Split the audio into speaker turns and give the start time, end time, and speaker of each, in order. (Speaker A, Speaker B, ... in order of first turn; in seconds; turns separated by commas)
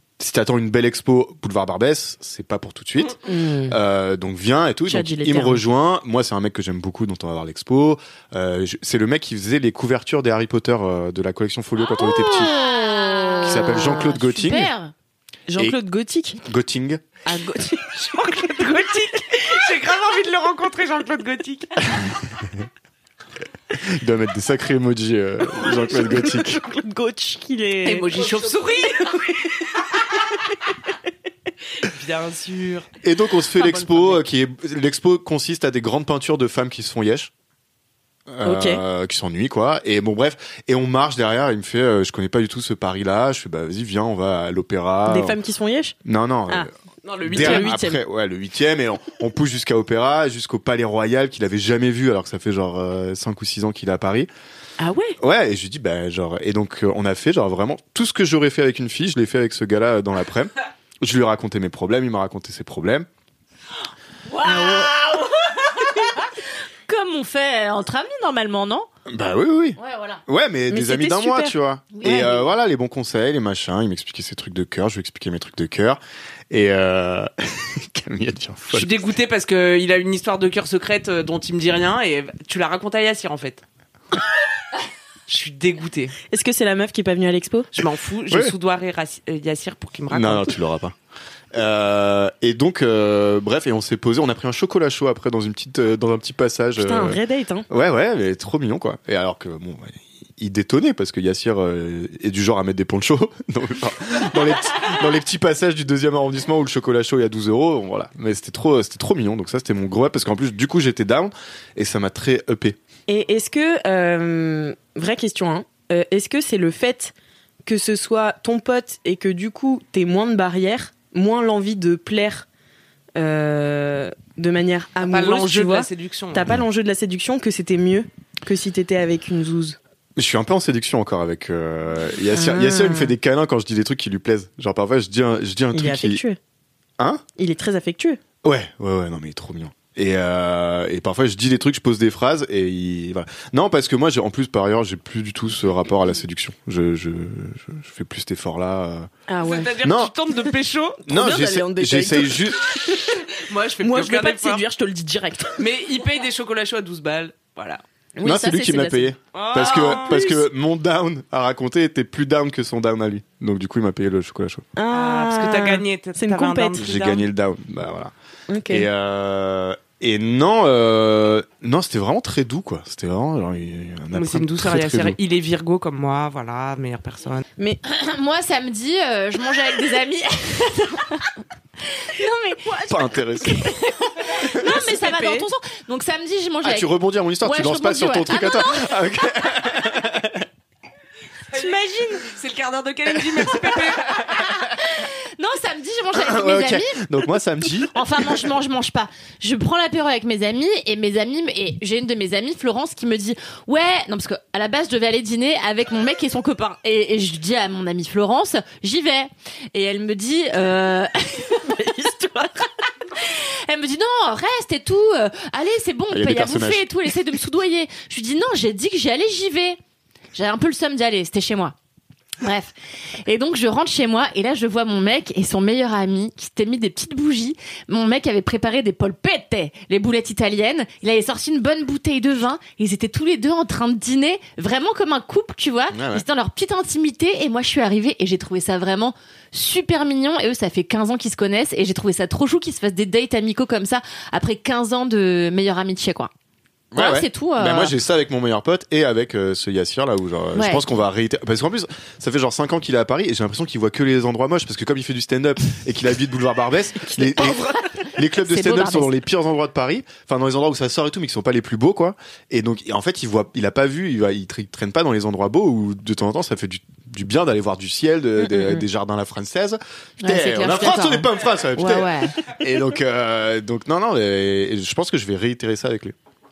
Speaker A: 0.2-12.5, Speaker B: 3.2-3.8, Speaker B: 4.9-5.6, Speaker C: 12.0-14.9, Speaker A: 13.4-14.7, Speaker B: 15.5-16.4, Speaker A: 16.4-17.0, Speaker B: 17.3-18.6, Speaker D: 18.1-21.8, Speaker A: 21.9-22.7, Speaker A: 23.7-26.6, Speaker B: 25.8-28.3, Speaker D: 27.8-29.4, Speaker B: 29.1-29.7, Speaker D: 31.8-32.9, Speaker A: 33.0-37.3, Speaker D: 33.6-34.2, Speaker A: 38.3-45.4, Speaker B: 38.4-38.8, Speaker B: 45.1-46.0, Speaker A: 46.0-46.7, Speaker D: 47.0-47.7, Speaker A: 47.2-54.3, Speaker B: 47.3-48.0, Speaker B: 54.8-55.2, Speaker A: 55.2-63.1, Speaker C: 64.4-66.3, Speaker B: 64.5-64.9, Speaker C: 66.9-68.9, Speaker A: 69.1-79.1, Speaker C: 69.8-70.2, Speaker B: 70.7-71.5, Speaker C: 71.9-72.4, Speaker D: 78.7-83.6, Speaker D: 85.3-86.2, Speaker B: 86.3-87.7, Speaker D: 87.7-90.6, Speaker A: 90.1-91.0, Speaker A: 91.5-112.8, Speaker B: 96.8-97.7, Speaker B: 113.1-117.1, Speaker B: 117.7-122.5, Speaker B: 123.2-129.8, Speaker D: 125.0-126.5, Speaker A: 130.2-136.2, Speaker B: 132.3-133.1, Speaker B: 135.7-136.4, Speaker B: 137.4-138.2, Speaker A: 138.4-149.1, Speaker B: 149.3-149.8, Speaker D: 149.4-151.0, Speaker A: 149.8-150.1, Speaker A: 151.1-152.6, Speaker B: 151.1-153.3, Speaker D: 153.4-154.6, Speaker B: 153.8-155.6, Speaker D: 155.6-157.8, Speaker B: 158.2-159.1, Speaker A: 158.2-164.6, Speaker D: 159.3-160.4, Speaker B: 164.8-166.9, Speaker D: 164.9-167.2, Speaker A: 166.8-168.1, Speaker B: 168.5-168.9, Speaker A: 168.7-175.2, Speaker D: 174.1-177.4, Speaker C: 177.8-181.3, Speaker C: 181.9-182.8, Speaker A: 182.9-183.8, Speaker C: 183.4-189.1, Speaker B: 184.6-185.5, Speaker A: 186.6-190.4, Speaker D: 191.5-194.2, Speaker B: 191.6-192.2, Speaker C: 194.3-197.1, Speaker A: 196.1-197.9, Speaker C: 197.9-219.8, Speaker A: 216.1-216.9, Speaker C: 220.3-221.8, Speaker C: 222.4-222.7, Speaker C: 223.2-246.3, Speaker A: 235.9-236.2, Speaker A: 246.9-276.1, Speaker C: 246.9-247.9, Speaker C: 250.6-250.8, Speaker C: 257.4-259.2, Speaker C: 270.2-272.4